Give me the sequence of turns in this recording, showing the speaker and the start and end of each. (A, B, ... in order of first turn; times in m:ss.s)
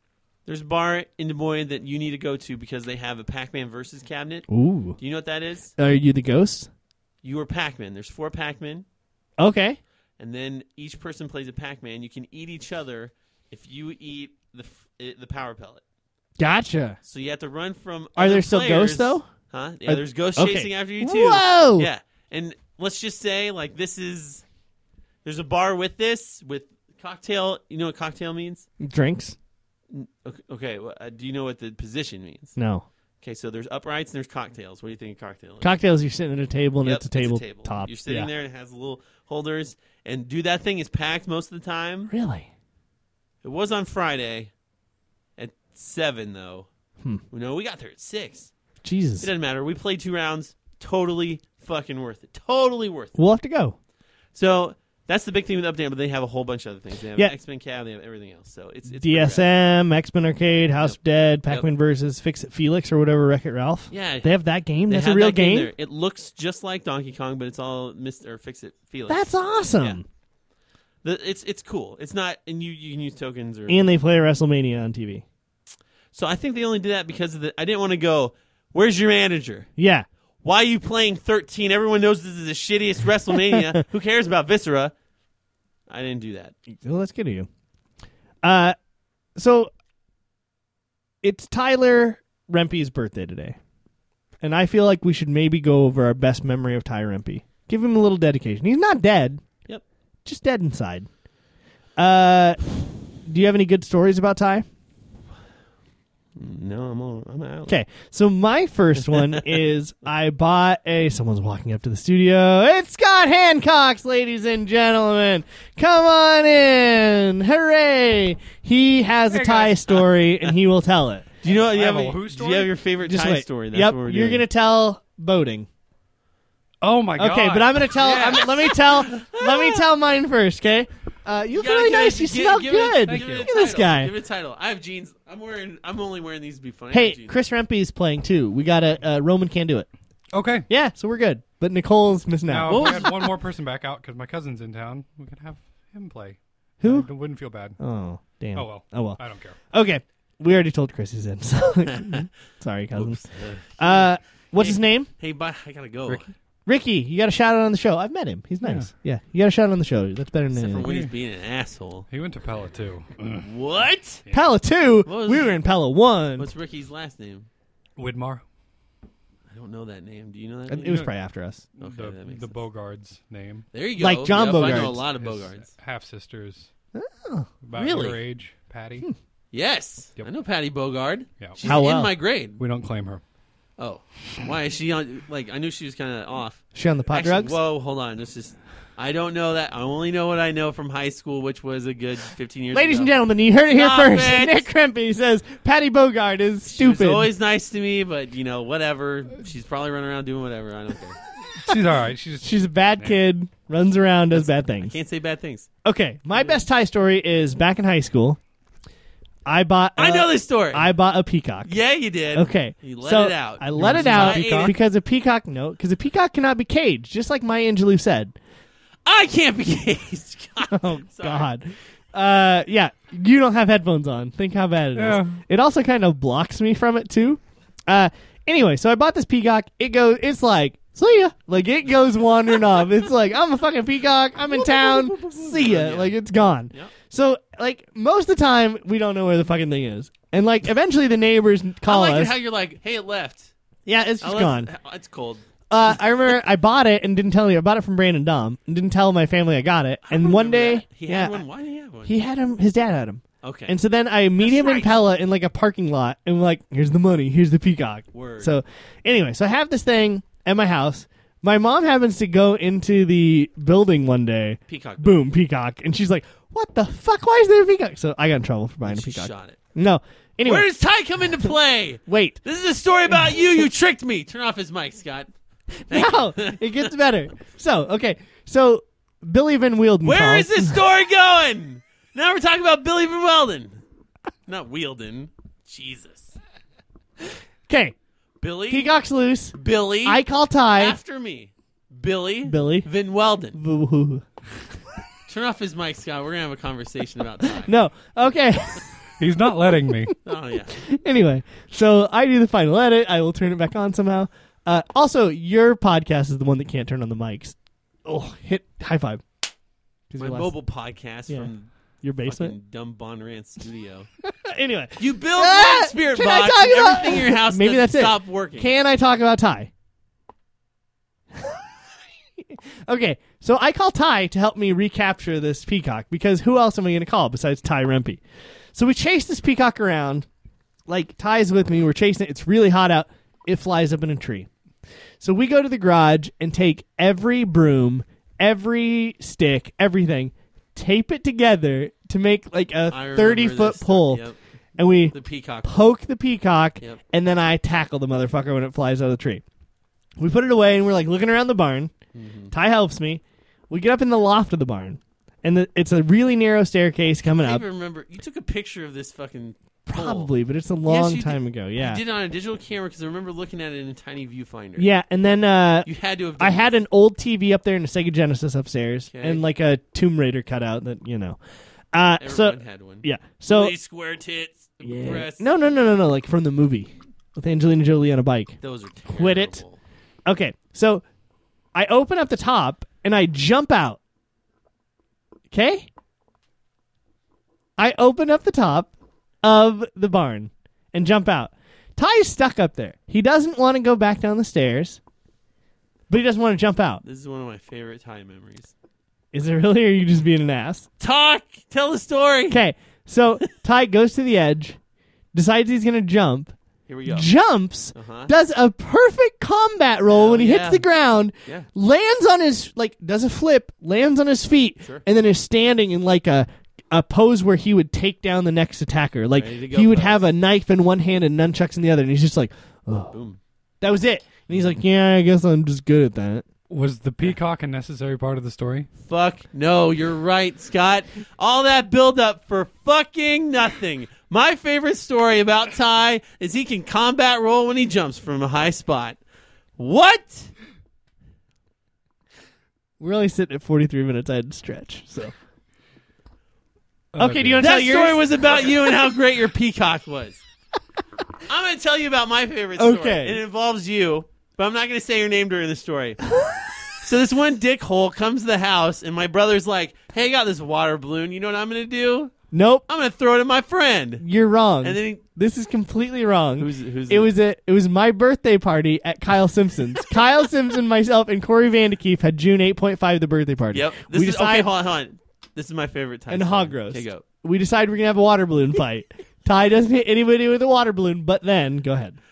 0:00.4-0:04.5 A
0:04.5-0:05.0 B
0:05.0-0:05.8 A
0:05.8-0:06.7 B
0:07.2-0:08.8 A
0:09.4-0:09.8 B
0:10.2-0:15.8 A
0:16.4-0:17.0 B
0:17.0-0:24.4 A
0:18.2-0:19.3 B
0:19.8-0:21.9 B
0:25.2-0:28.7 A
0:28.8-0:29.4 B
0:29.9-0:32.6 A
0:32.6-0:32.8 B
0:33.2-0:35.7 A
0:35.6-0:38.3 B
0:36.8-0:42.1 A
0:42.1-0:42.5 B
0:43.4-0:44.5 A
0:45.4-0:46.7 A
0:47.3-0:48.5 A
0:48.8-0:49.3 B
0:49.2-0:53.1 A
0:53.2-0:53.8 B
0:54.3-0:59.5 A
0:58.9-1:05.7 B
1:03.9-1:04.3 A
1:04.9-1:10.0 A
1:09.1-1:10.0 B
1:11.0-1:13.8 A
1:13.7-1:15.2 B
1:16.1-1:19.7 A
1:19.8-1:20.0 B
1:20.4-1:24.9 A
1:23.3-1:23.8 B
1:25.9-1:26.5 A
1:26.7-1:27.5 B
1:28.4-1:28.8 B
1:29.4-1:29.7 B
1:31.2-1:33.6 B
1:34.4-1:39.4 B
1:40.2-1:41.1 B
1:42.0-1:42.6 B
1:43.2-1:44.6 B
1:46.4-1:47.8 A
1:47.7-2:01.3 B
1:59.3-1:59.9 C
2:01.4-2:04.4 A
2:01.4-2:02.7 C
2:03.1-2:05.7 B
2:06.8-2:08.5 C
2:07.1-2:14.1 B
2:08.0-2:09.8 A
2:11.5-2:17.3 A
2:13.0-2:13.5 C
2:16.9-2:19.9 B
2:20.3-2:20.7 C
2:20.7-2:23.1 B
2:22.5-2:27.8 C
2:22.6-2:23.3 A
2:26.8-2:27.1 B
2:27.8-2:33.2 B
2:28.5-2:29.6 C
2:31.8-2:32.2 A
2:32.9-2:34.0 A
2:33.8-2:35.1 B
2:34.6-2:36.3 A
2:36.6-2:40.8 B
2:38.6-2:38.9 C
2:40.5-2:42.1 A
2:40.8-2:41.1 C
2:42.1-2:43.5 C
2:43.4-2:44.2 A
2:44.3-2:46.5 B
2:45.0-2:45.6 A
2:46.4-2:47.5 A
2:48.0-2:48.4 C
2:49.5-2:51.1 A
2:50.7-2:51.6 B
2:50.8-2:51.1 C
2:51.8-2:52.6 A
2:51.8-2:53.6 C
2:53.7-2:55.7 A
2:54.0-2:55.0 B
2:54.6-2:56.7 C
2:56.9-2:57.5 B
2:57.6-2:59.1 C
2:57.7-2:58.2 A
2:59.5-3:02.6 A
3:01.4-3:01.8 C
3:01.6-3:02.1 B
3:02.6-3:03.2 C
3:03.8-3:13.1 A
3:06.7-3:07.6 B
3:12.7-3:17.3 B
3:13.7-3:14.7 A
3:16.6-3:21.2 A
3:21.6-3:23.2 C
3:22.4-3:24.9 B
3:24.3-3:25.7 A
3:25.8-3:28.4 B
3:29.4-3:31.7 B
3:30.0-3:30.9 A
3:31.6-3:34.8 A
3:32.3-3:38.4 B
3:33.7-3:34.7 C
3:39.0-3:41.5 A
3:40.7-4:02.4 B
3:44.9-3:45.4 C
3:54.5-3:56.2 A
4:01.8-4:03.5 A
4:03.8-4:04.7 B
4:04.2-4:05.4 A
4:05.7-4:11.4 B
4:10.0-4:12.2 A
4:12.0-4:30.7 B
4:13.4-4:13.8 A
4:14.4-4:15.0 A
4:18.1-4:18.6 A
4:24.7-4:25.1 A
4:28.8-4:29.6 A
4:30.4-4:35.3 A
4:32.1-4:32.4 B
4:35.9-4:36.9 A
4:35.9-4:40.8 B
4:40.0-4:43.8 A
4:44.5-4:46.3 A
4:47.7-4:47.9 B
4:48.4-4:48.9 A
4:48.7-4:51.0 B
4:49.5-4:50.2 A
4:50.8-4:53.6 A
4:52.4-4:52.9 B
4:53.5-4:54.2 B
4:55.3-4:57.7 A
4:57.6-4:58.9 B
4:59.2-5:00.1 C
5:00.2-5:00.8 A
5:00.7-5:09.2 B
5:10.1-5:10.5 B
5:10.2-5:11.7 A
5:11.3-5:12.5 B
5:12.2-5:14.1 A
5:14.2-5:19.7 B
5:15.0-5:18.7 A
5:21.3-5:21.6 B
5:22.4-5:28.2 B
5:28.7-5:30.3 B
5:30.9-5:34.5 B
5:35.2-5:44.2 B
5:42.9-5:44.4 A
5:44.8-5:49.4 B
5:45.1-5:45.9 A
5:50.2-5:51.9 B
5:52.1-5:52.5 A
5:52.5-5:57.6 B
5:57.3-6:00.3 A
5:59.9-6:02.0 B
6:00.8-6:04.9 A
6:04.8-6:11.4 B
6:05.8-6:06.8 A
6:09.1-6:09.4 A
6:11.9-6:13.7 B
6:12.2-6:15.5 A
6:14.9-6:18.6 B
6:18.6-6:19.8 A
6:19.1-6:19.6 B
6:20.2-6:21.0 B
6:21.7-6:24.0 B
6:25.5-6:25.9 B
6:27.8-6:28.9 B
6:29.4-6:35.0 B
6:36.1-6:37.0 B
6:37.0-6:38.7 A
6:39.3-6:40.9 B
6:41.0-6:42.6 A
6:42.5-6:44.8 B
6:45.3-6:46.5 B
6:46.9-6:47.3 A
6:47.1-7:03.1 B
6:47.9-6:48.3 A
6:50.1-6:50.8 A
6:59.4-7:00.3 A
7:03.1-7:03.4 A
7:03.8-7:06.5 B
7:06.7-7:08.9 C
7:09.0-7:19.2 A
7:19.8-7:20.5 A
7:23.0-7:25.3 B
7:27.1-7:27.7 C
7:27.2-7:28.7 B
7:27.6-7:30.4 A
7:31.5-7:36.2 A
7:32.8-7:33.4 B
7:37.0-7:42.3 A
7:42.5-7:42.8 B
7:42.9-7:44.2 A
7:44.2-7:54.7 B
7:44.8-7:45.2 A
7:46.6-7:47.3 A
7:53.7-7:57.2 A
7:56.3-8:02.2 B